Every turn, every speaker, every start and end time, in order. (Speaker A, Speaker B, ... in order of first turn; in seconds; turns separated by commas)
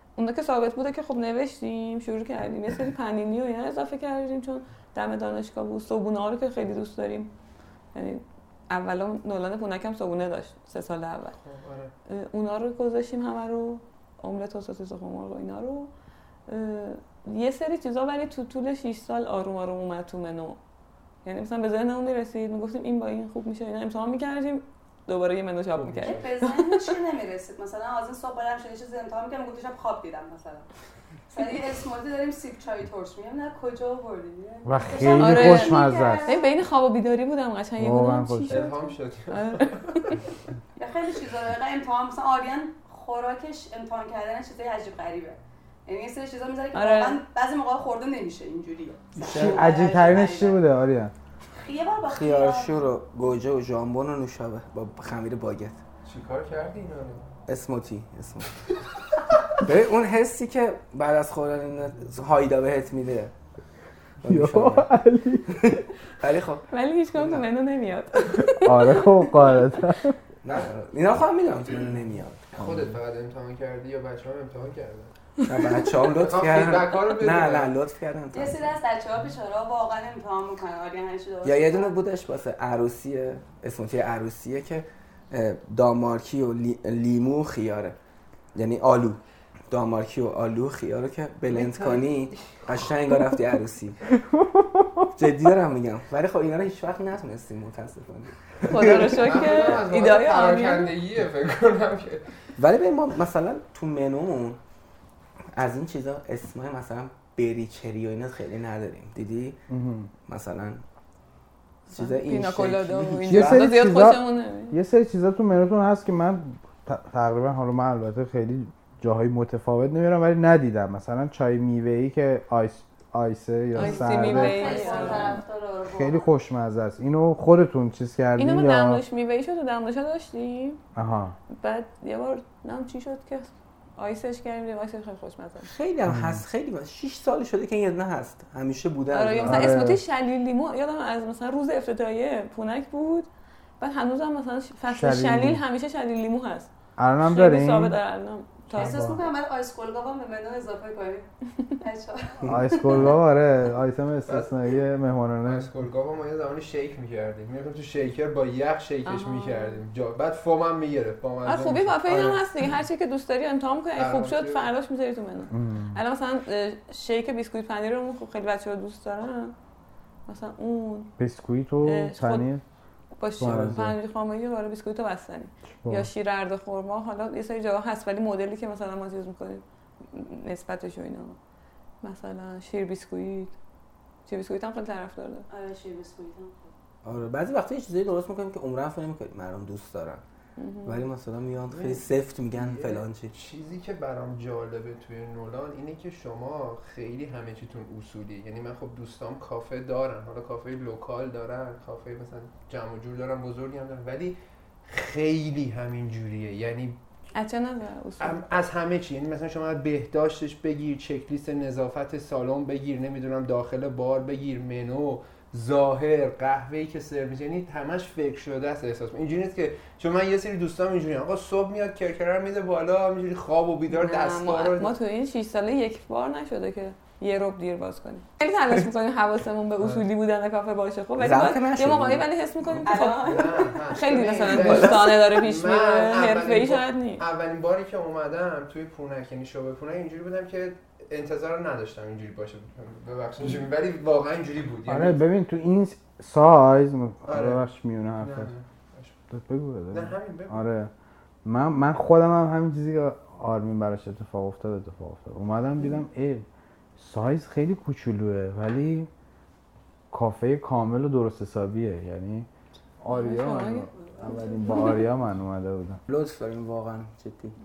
Speaker A: 0.2-7.3, Speaker A: 7.9-11.4, Speaker B: 11.3-11.9, Speaker A: 12.1-15.9, Speaker A: 16.5-20.6, Speaker A: 21.2-27.0, Speaker B: 25.8-26.4, Speaker C: 26.1-30.7, Speaker C: 31.3-36.5, Speaker D: 34.6-36.3, Speaker A: 35.0-40.2, Speaker D: 37.8-38.7, Speaker B: 38.5-40.0, Speaker C: 40.8-50.6, Speaker A: 46.7-47.2, Speaker D: 49.2-51.1, Speaker C: 51.6-52.8, Speaker E: 52.0-55.8, Speaker B: 56.1-57.2, Speaker E: 57.5-58.5, Speaker E: 59.5-63.3, Speaker E: 64.2-64.9, Speaker D: 64.3-65.7, Speaker E: 65.5-67.4, Speaker A: 66.7-69.5, Speaker D: 68.6-70.2, Speaker E: 70.4-72.9, Speaker B: 72.5-75.1, Speaker E: 75.5-78.6, Speaker B: 76.1-77.7, Speaker C: 78.3-81.9, Speaker E: 81.4-88.0, Speaker E: 88.5-94.0, Speaker B: 91.5-92.7, Speaker D: 94.3-95.1, Speaker E: 95.1-99.6, Speaker A: 98.7-101.0, Speaker B: 99.0-102.2, Speaker E: 102.6-104.6, Speaker E: 105.5-109.6, Speaker D: 109.7-110.1, Speaker E: 110.3-110.8, Speaker E: 111.9-113.7, Speaker A: 111.9-114.8, Speaker D: 113.3-125.3, Speaker A: 123.8-125.4, Speaker C: 123.8-126.3, Speaker D: 125.9-129.0, Speaker A: 128.4-130.8, Speaker D: 131.0-131.3, Speaker A: 131.5-135.7, Speaker E: 135.6-139.8, Speaker D: 136.1-136.4, Speaker A: 139.1-143.3, Speaker D: 139.5-140.0, Speaker A: 143.8-146.7, Speaker D: 144.9-145.6, Speaker D: 147.0-148.0, Speaker A: 147.2-149.0, Speaker D: 148.7-149.2, Speaker C: 148.7-151.3, Speaker C: 151.8-153.1, Speaker D: 152.5-155.7, Speaker B: 154.3-154.5, Speaker B: 155.4-162.5, Speaker A: 159.1-159.8, Speaker A: 161.4-169.6, Speaker B: 163.9-164.7, Speaker D: 165.5-166.0, Speaker A: 170.3-171.1, Speaker D: 171.2-172.6, Speaker A: 171.8-172.5, Speaker A: 173.2-181.4, Speaker D: 173.4-174.0, Speaker E: 173.4-173.8, Speaker D: 175.8-176.1, Speaker A: 182.0-183.6, Speaker A: 184.3-185.5, Speaker C: 185.5-186.7, Speaker E: 187.1-190.2, Speaker A: 190.6-191.1, Speaker E: 190.9-193.3, Speaker B: 191.7-207.0, Speaker A: 207.3-208.4, Speaker B: 208.2-225.0, Speaker A: 223.9-237.2, Speaker B: 229.8-230.1, Speaker E: 231.2-232.8, Speaker C: 232.9-233.7, Speaker B: 233.2-245.2, Speaker E: 234.5-235.2, Speaker D: 244.9-248.5, Speaker B: 247.3-247.6, Speaker B: 248.2-249.2, Speaker D: 249.3-250.9, Speaker B: 249.9-250.6, Speaker D: 251.4-256.4, Speaker D: 257.0-259.1, Speaker D: 260.1-262.5, Speaker D: 263.0-266.0, Speaker A: 263.1-265.1, Speaker E: 266.1-267.6